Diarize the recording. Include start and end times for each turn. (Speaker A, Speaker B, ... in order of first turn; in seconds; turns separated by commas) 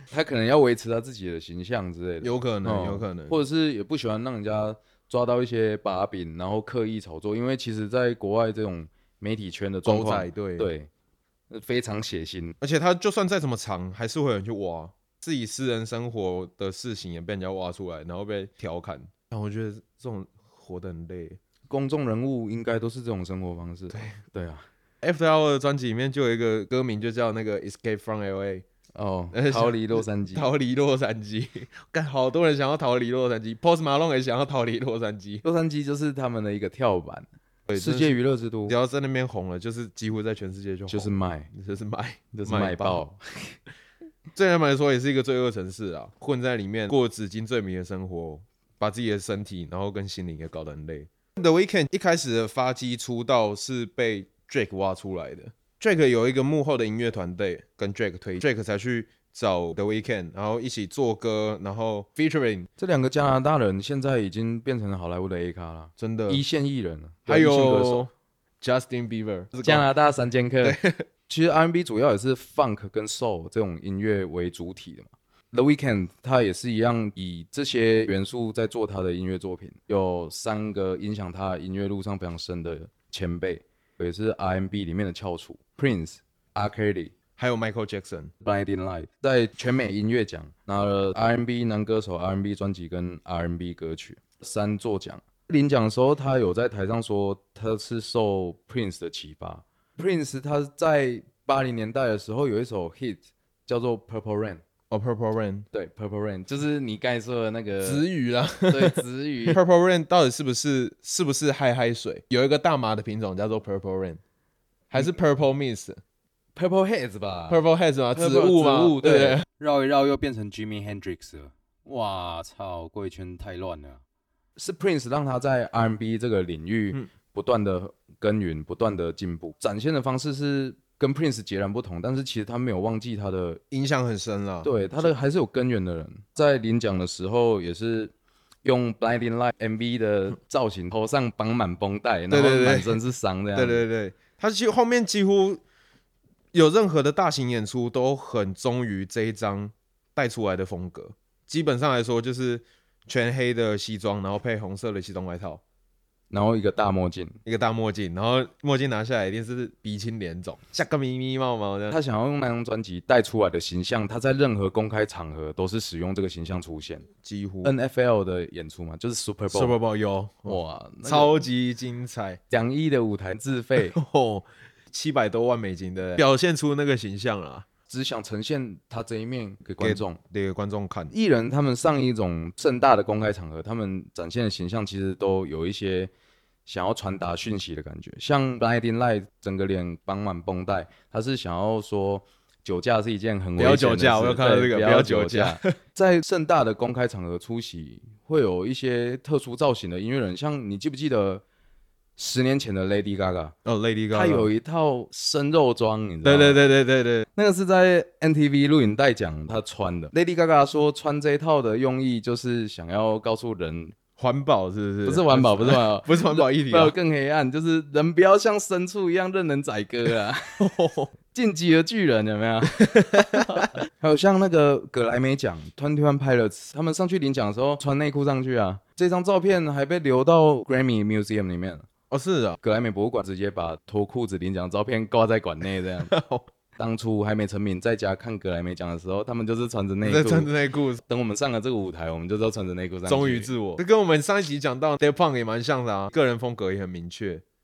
Speaker A: 0.1-10.9, Speaker B: 2.2-3.4, Speaker B: 9.8-10.7, Speaker A: 11.5-12.6, Speaker B: 12.6-21.4, Speaker A: 21.7-24.6, Speaker B: 23.9-24.2, Speaker B: 25.0-28.6, Speaker A: 28.9-30.5, Speaker B: 29.3-35.4, Speaker A: 35.4-38.8, Speaker B: 37.7-43.0, Speaker A: 40.9-41.5, Speaker A: 42.3-43.6, Speaker B: 44.3-62.7, Speaker A: 62.8-68.0, Speaker B: 66.0-66.4, Speaker B: 67.3-69.9, Speaker A: 69.6-70.8, Speaker B: 70.6-71.0, Speaker A: 71.3-87.1, Speaker B: 87.4-88.3, Speaker A: 88.4-104.6, Speaker B: 104.9-105.7, Speaker A: 105.7-108.0, Speaker B: 107.8-114.2, Speaker A: 108.7-109.6, Speaker B: 114.9-116.0, Speaker A: 116.5-117.6, Speaker B: 117.5-119.4, Speaker A: 118.1-124.0, Speaker A: 124.5-133.6, Speaker B: 133.7-135.1, Speaker A: 134.6-138.1, Speaker A: 138.6-143.9, Speaker B: 142.3-143.0, Speaker B: 143.5-145.6, Speaker B: 146.5-155.6, Speaker A: 156.3-157.3, Speaker B: 157.4-161.9, Speaker A: 161.9-167.1, Speaker B: 167.2-167.7, Speaker A: 167.6-169.8, Speaker B: 169.5-172.4, Speaker A: 170.4-171.4, Speaker A: 172.5-173.9, Speaker B: 173.8-177.7, Speaker A: 177.9-180.2, Speaker B: 179.8-181.1, Speaker A: 181.1-186.1, Speaker A: 186.7-201.4, Speaker B: 193.6-195.8, Speaker A: 202.2-203.5, Speaker B: 203.6-204.5, Speaker A: 204.1-206.6, Speaker B: 206.2-207.2, Speaker A: 207.3-213.9, Speaker B: 214.2-217.0, Speaker A: 215.0-220.6, Speaker B: 220.6-221.1, Speaker A: 221.3-231.8, Speaker B: 222.8-223.7, Speaker B: 232.1-232.6, Speaker A: 232.6-236.1, Speaker B: 236.0-236.5, Speaker A: 236.8-240.5, Speaker B: 240.0-241.0, Speaker A: 241.1-243.5, Speaker B: 243.1-247.4